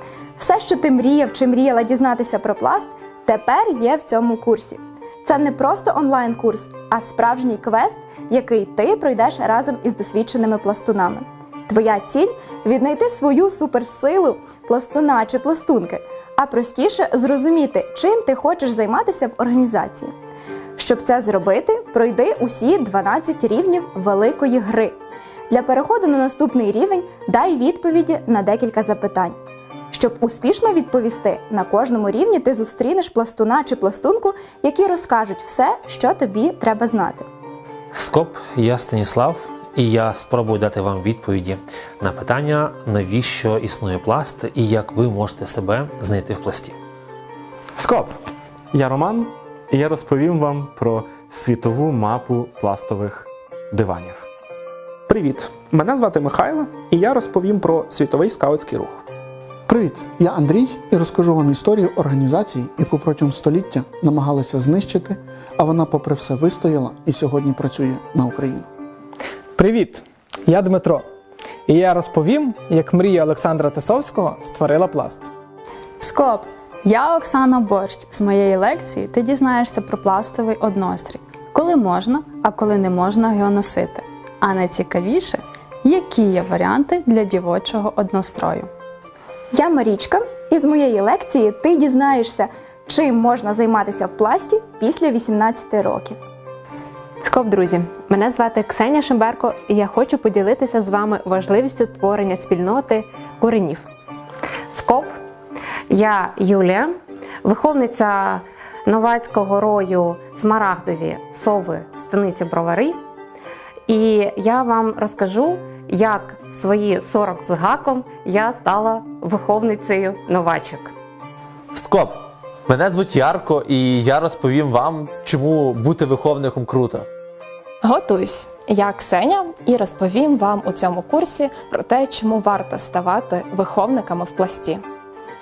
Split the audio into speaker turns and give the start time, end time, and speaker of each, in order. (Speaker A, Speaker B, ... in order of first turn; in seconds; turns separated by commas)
Speaker A: 0.4-20.1, Speaker A: 20.8-25.0, Speaker A: 25.5-29.4, Speaker A: 29.9-37.2, Speaker B: 37.9-46.8, Speaker C: 47.8-48.1, Speaker C: 48.7-54.2, Speaker D: 55.1-59.0, Speaker E: 59.7-68.7, Speaker F: 69.6-70.9, Speaker F: 71.7-75.2, Speaker G: 76.0-88.7, Speaker A: 89.5-96.2, Speaker H: 97.2-103.8, Speaker I: 104.7-105.2, Speaker I: 105.9-113.0, Speaker I: 113.9-120.9, Speaker J: 121.7-127.1, Speaker K: 127.8-134.8